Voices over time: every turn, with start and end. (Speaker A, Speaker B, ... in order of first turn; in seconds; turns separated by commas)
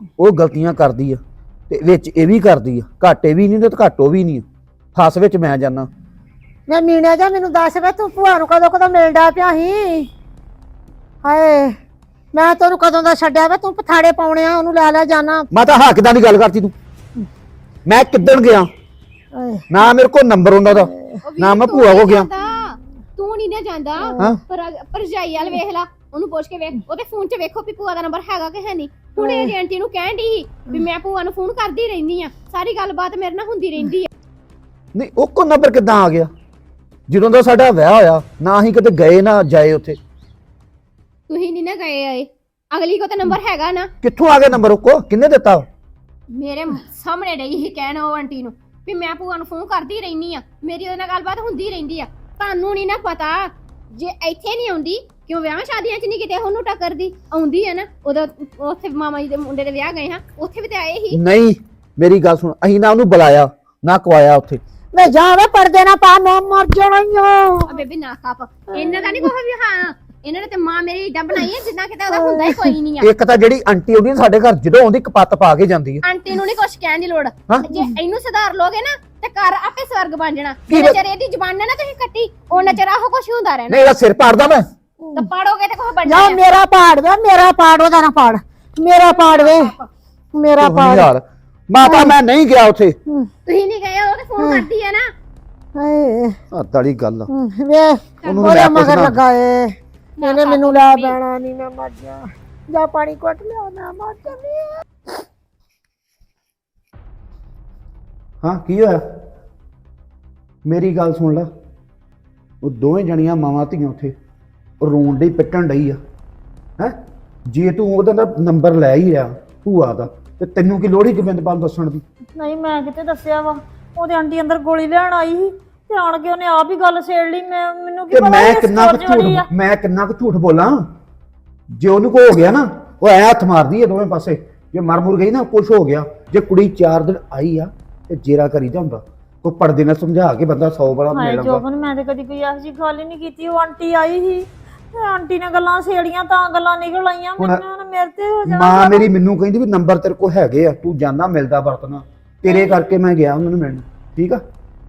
Speaker A: 0.2-5.9, Speaker B: 6.7-10.1, Speaker B: 11.2-11.7, Speaker B: 12.3-15.5, Speaker A: 15.5-16.7, Speaker A: 17.9-18.7, Speaker B: 19.3-19.9, Speaker A: 19.7-22.3, Speaker B: 20.7-21.2, Speaker C: 21.2-34.1, Speaker B: 29.2-29.5, Speaker A: 34.9-36.3, Speaker A: 37.1-40.0, Speaker C: 41.3-43.9, Speaker A: 44.0-45.7, Speaker C: 46.3-61.2, Speaker A: 61.1-64.6, Speaker B: 64.9-67.7, Speaker C: 67.7-73.1, Speaker B: 72.1-72.6, Speaker A: 73.0-76.0, Speaker C: 76.0-83.9, Speaker A: 80.7-81.0, Speaker A: 83.7-84.7, Speaker B: 85.0-85.3, Speaker C: 85.1-86.4, Speaker B: 86.0-89.7, Speaker C: 89.0-89.9, Speaker B: 90.3-91.1, Speaker A: 90.6-93.0, Speaker B: 91.8-92.2, Speaker C: 93.5-95.1, Speaker B: 94.4-94.7, Speaker B: 95.8-96.4, Speaker A: 96.5-97.3, Speaker B: 97.3-104.8, Speaker C: 98.2-98.5, Speaker A: 98.2-99.2, Speaker C: 100.2-101.2, Speaker A: 108.4-109.0, Speaker A: 110.6-111.5, Speaker A: 112.6-114.1, Speaker A: 114.8-116.0, Speaker A: 116.8-122.0, Speaker D: 122.4-129.5, Speaker A: 128.1-130.8, Speaker A: 131.7-141.6, Speaker D: 141.1-149.1, Speaker A: 148.5-154.4, Speaker D: 152.5-152.8